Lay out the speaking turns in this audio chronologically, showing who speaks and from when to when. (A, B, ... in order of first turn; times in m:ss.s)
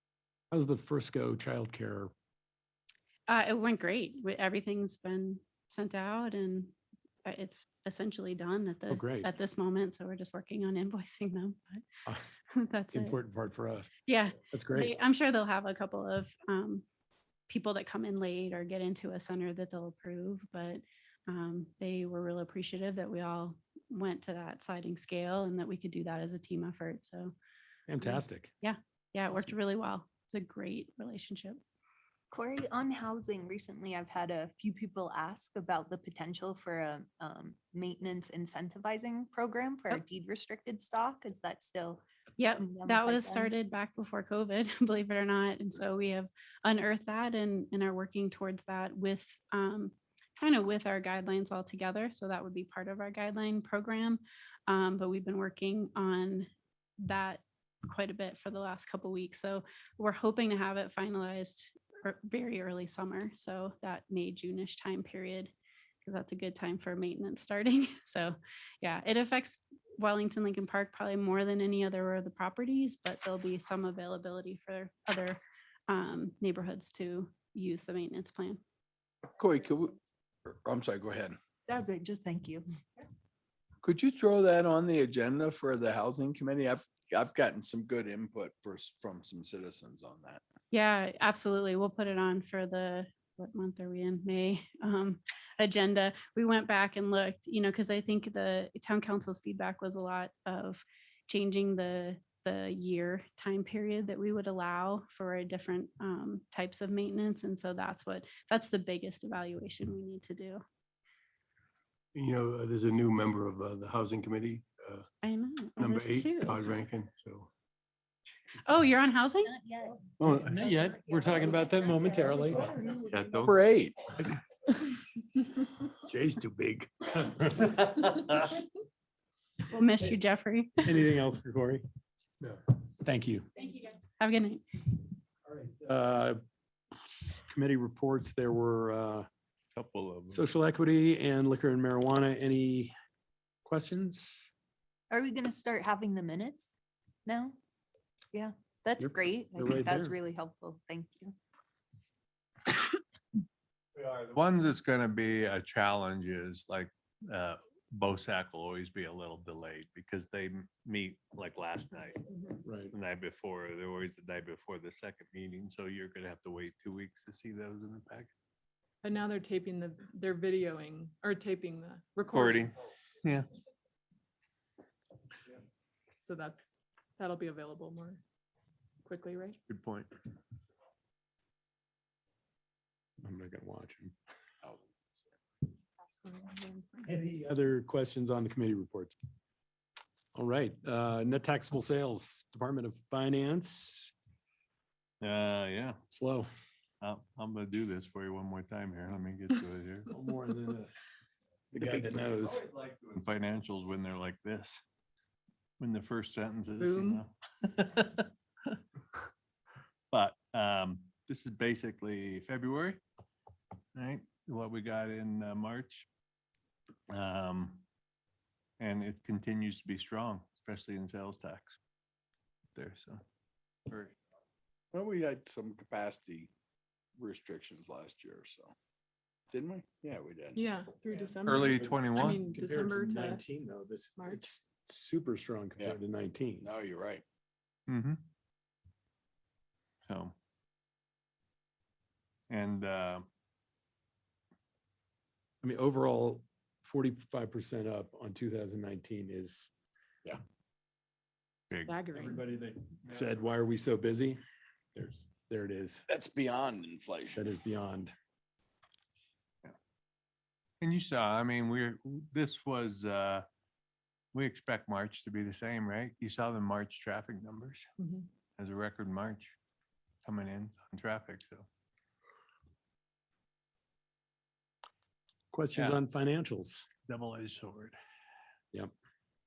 0:00.5-0:02.1 A
0:03.3-0:06.7 B
0:07.2-0:11.8 B
0:08.9-0:09.3 A
0:12.1-0:12.4 A
0:12.5-0:13.2 B
0:12.9-0:13.9 A
0:14.1-0:16.8 B
0:14.5-0:14.9 A
0:17.5-0:27.3 B
0:27.9-0:28.5 A
0:28.0-0:31.6 B
0:32.3-0:42.0 C
0:42.4-0:56.5 B
0:42.5-0:43.5 C
0:57.0-1:05.5 B
1:06.0-1:18.6 B
1:19.4-1:21.4 D
1:21.7-1:22.6 C
1:23.8-1:30.4 D
1:30.7-1:50.6 B
1:52.2-1:55.0 E
1:55.2-1:56.7 B
1:55.8-1:57.5 E
1:58.6-1:59.5 B
2:00.2-2:02.7 A
2:03.0-2:03.5 F
2:03.4-2:03.9 D
2:06.1-2:06.9 E
2:07.9-2:08.3 F
2:09.7-2:11.0 B
2:10.8-2:11.8 A
2:13.0-2:13.5 A
2:13.6-2:14.8 B
2:15.6-2:16.4 A
2:17.5-2:19.3 A
2:19.7-2:20.4 F
2:20.3-2:22.9 A
2:23.6-2:24.5 A
2:25.1-2:26.7 C
2:27.2-2:27.6 C
2:28.3-2:31.3 C
2:29.0-2:30.2 A
2:34.0-2:42.2 F
2:42.6-2:42.9 A
2:42.9-2:48.3 F
2:49.0-2:52.7 G
2:52.3-2:53.5 F
2:56.2-2:58.2 G
2:59.0-2:59.6 G
2:59.7-3:00.1 F
3:03.2-3:04.1 A
3:06.0-3:07.1 G
3:07.0-3:09.1 A
3:10.3-3:14.1 A
3:15.2-3:16.0 F
3:16.1-3:16.5 A
3:17.0-3:20.1 F
3:20.1-3:20.9 A
3:21.7-3:22.6 A
3:22.0-3:24.8 F
3:25.8-3:28.8 F
3:26.8-3:27.2 G
3:30.1-3:33.0 F
3:33.9-3:36.1 F
3:37.1-3:37.8 F
3:38.8-3:41.8 F
3:42.7-3:43.2 F
3:43.9-3:44.1 F
3:44.9-3:46.5 D
3:47.2-3:48.7 D
3:49.5-3:50.7 D
3:50.5-3:53.4 G
3:51.4-3:52.4 F
3:51.6-3:56.7 A
3:54.2-3:54.5 G
3:56.6-3:57.2 D
3:57.9-3:58.2 F
4:00.1-4:00.3 F
4:02.5-4:03.3 F
4:05.6-4:09.7 A
4:11.7-4:12.4 F
4:11.7-4:12.4 G
4:12.9-4:14.4 A
4:14.9-4:16.0 A
4:16.1-4:17.4 D
4:17.3-4:18.1 A
4:20.8-4:23.4 F
4:24.3-4:27.9 F
4:28.0-4:28.3 G
4:28.6-4:29.5 F
4:30.2-4:31.6 F
4:35.5-4:36.9 A
4:37.1-4:38.0 F